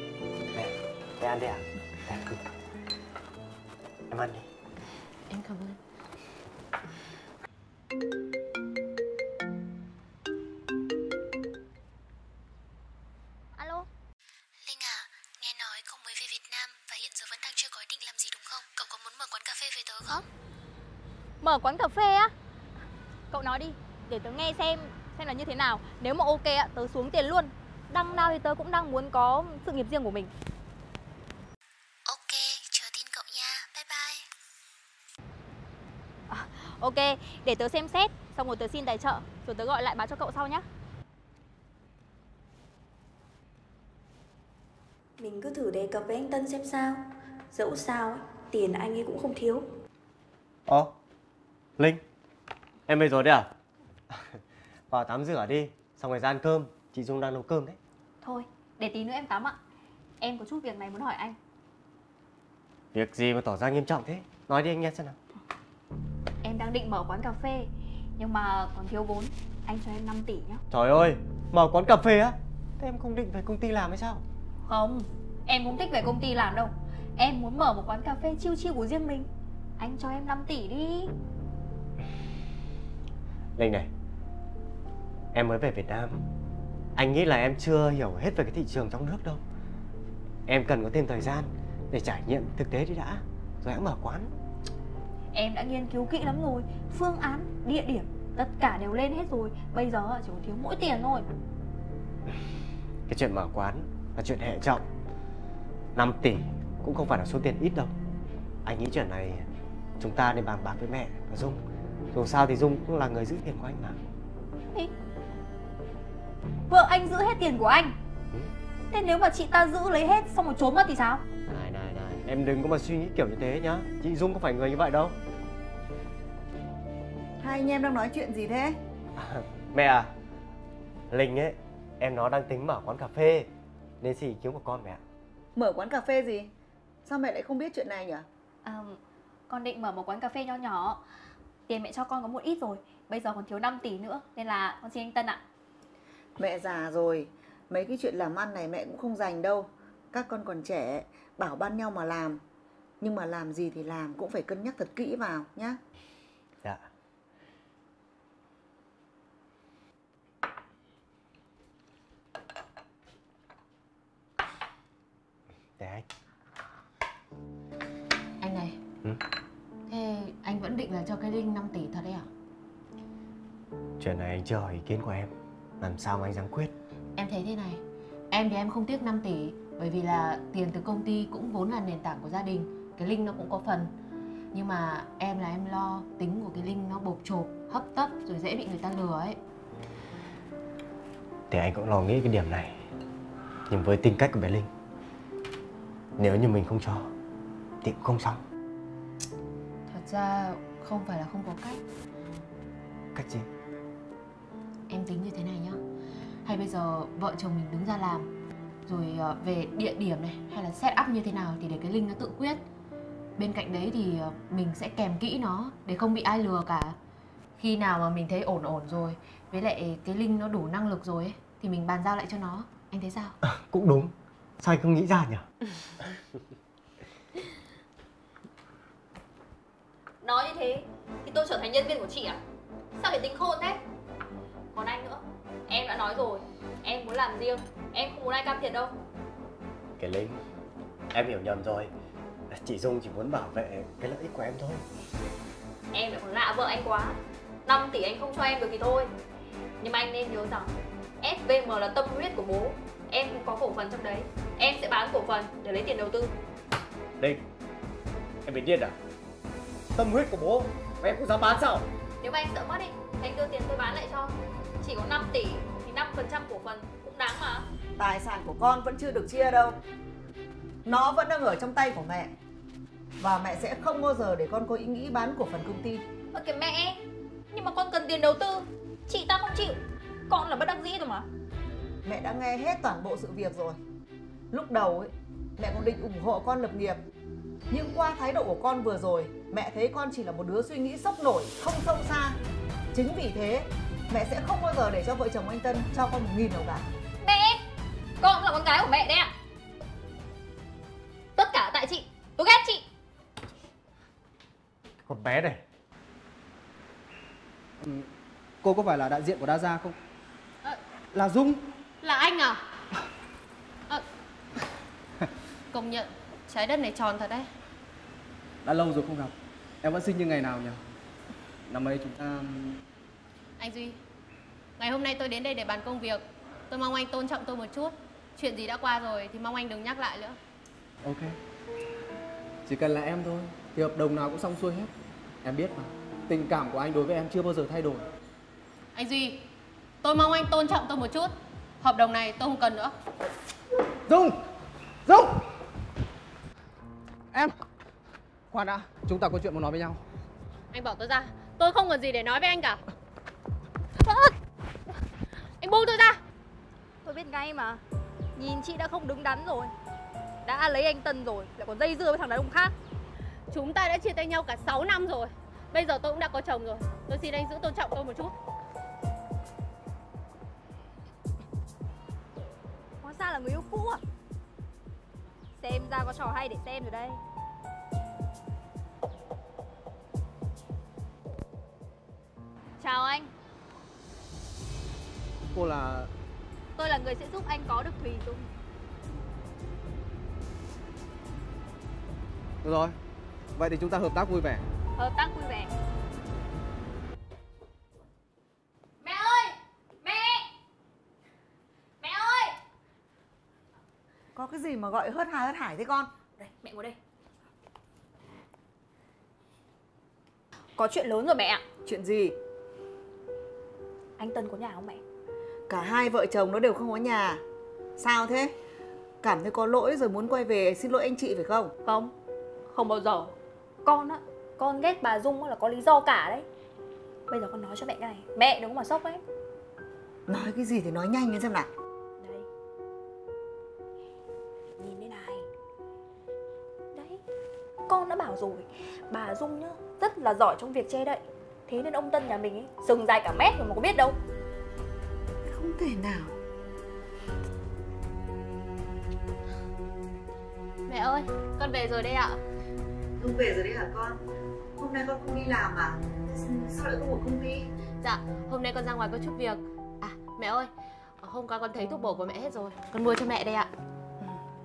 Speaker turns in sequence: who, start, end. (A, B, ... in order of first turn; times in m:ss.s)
0:00.5-0:02.4 A
0:04.1-0:04.5 A
0:05.3-0:05.8 B
0:14.6-0:20.2 C
0:21.4-0:22.3 D
0:23.3-0:30.3 D
0:32.0-0:34.2 C
0:36.3-0:40.6 D
0:45.2-0:49.7 E
0:50.7-0:50.9 A
0:52.9-0:53.5 A
0:54.1-0:54.4 A
0:54.9-0:57.8 A
0:58.2-0:59.6 D
1:00.2-1:01.4 D
1:02.9-1:05.2 A
1:06.4-1:10.6 D
1:10.7-1:14.2 A
1:14.7-1:21.1 D
1:23.6-1:23.9 A
1:25.3-1:26.2 A
1:27.0-1:29.4 A
1:30.4-1:34.3 A
1:35.3-1:41.3 D
1:43.1-1:44.8 A
1:45.9-1:47.9 A
1:48.6-1:49.5 A
1:50.0-1:51.6 A
1:52.1-1:54.0 A
1:56.7-1:57.9 D
1:58.9-2:01.2 D
2:01.5-2:05.2 A
2:07.4-2:08.8 F
2:09.2-2:10.1 A
2:11.1-2:13.5 A
2:14.0-2:15.0 A
2:15.6-2:16.5 F
2:17.0-2:18.2 F
2:18.6-2:19.0 D
2:19.5-2:21.0 D
2:21.7-2:25.4 D
2:26.4-2:32.4 F
2:33.0-2:35.8 F
2:45.8-2:46.0 A
2:48.4-2:48.8 B
2:49.9-2:52.3 B
2:54.0-2:56.7 A
2:57.2-3:03.9 B
3:04.5-3:09.4 B
3:11.5-3:12.8 A
3:13.7-3:14.7 A
3:16.2-3:17.1 A
3:17.8-3:18.4 A
3:19.9-3:21.8 B
3:23.1-3:23.5 A
3:24.9-3:25.8 B
3:26.4-3:28.3 B
3:28.9-3:32.6 B
3:33.4-3:37.0 B
3:37.6-3:43.3 B
3:43.4-3:45.4 A
3:50.2-3:52.4 D
3:53.0-3:53.8 D
3:54.7-3:58.9 D
4:00.0-4:00.4 A
4:01.1-4:01.9 A
4:02.5-4:04.8 A
4:05.9-4:09.1 D
4:09.8-4:16.3 D
4:18.4-4:19.0 A
4:20.0-4:21.8 A
4:22.2-4:27.7 D
4:28.0-4:29.8 F
4:30.8-4:32.3 F
4:33.2-4:36.0 F
4:36.3-4:37.0 D
4:37.5-4:41.2 D
4:42.0-4:43.8 F
4:44.5-4:47.0 F
4:47.7-4:52.4 F
4:52.9-4:56.9 F
4:57.2-4:57.6 D
4:58.2-4:59.3 D
5:01.4-5:02.8 D
5:05.0-5:05.6 A
5:07.8-5:08.1 G
5:08.6-5:10.0 G
5:11.1-5:11.6 G
5:12.0-5:12.6 B
5:15.7-5:17.5 B
5:18.6-5:20.8 G
5:21.7-5:22.8 G
5:23.6-5:24.0 B
5:24.8-5:30.4 B
5:31.0-5:31.4 G
5:32.6-5:34.9 G
5:35.4-5:38.1 G
5:38.9-5:39.4 B
5:40.0-5:42.9 B
5:44.1-5:44.4 G
5:45.0-5:45.4 G
5:48.5-5:50.0 G
5:50.7-5:52.8 B
5:55.6-5:56.2 B
5:57.0-5:57.8 D
5:58.3-5:59.7 D
6:00.4-6:02.7 D
6:03.5-6:08.3 B
6:13.0-6:14.0 D
6:15.6-6:17.2 D
6:22.8-6:23.3 D
6:25.5-6:26.1 G
6:26.8-6:28.5 D
6:32.6-6:33.0 G
6:33.6-6:34.6 G
6:35.0-6:35.7 D
6:39.0-6:40.5 D
6:42.0-6:42.6 D
6:44.3-6:46.1 F
6:46.4-6:47.0 D
6:50.8-6:51.6 D
6:51.8-6:52.4 F
6:54.2-6:55.0 D
6:55.7-6:57.4 F
6:58.0-6:58.5 F
6:59.2-7:01.7 F
7:01.8-7:02.1 D
7:02.7-7:03.3 D
7:03.8-7:06.5 D
7:07.3-7:09.2 D
7:10.3-7:11.7 F
7:12.2-7:12.4 D
7:14.8-7:15.4 D
7:16.9-7:17.2 D
7:17.9-7:24.2 D
7:25.4-7:26.4 F
7:30.9-7:32.4 B
7:33.2-7:34.2 F
7:34.8-7:37.6 F
7:38.0-7:40.7 B
7:41.2-7:43.7 B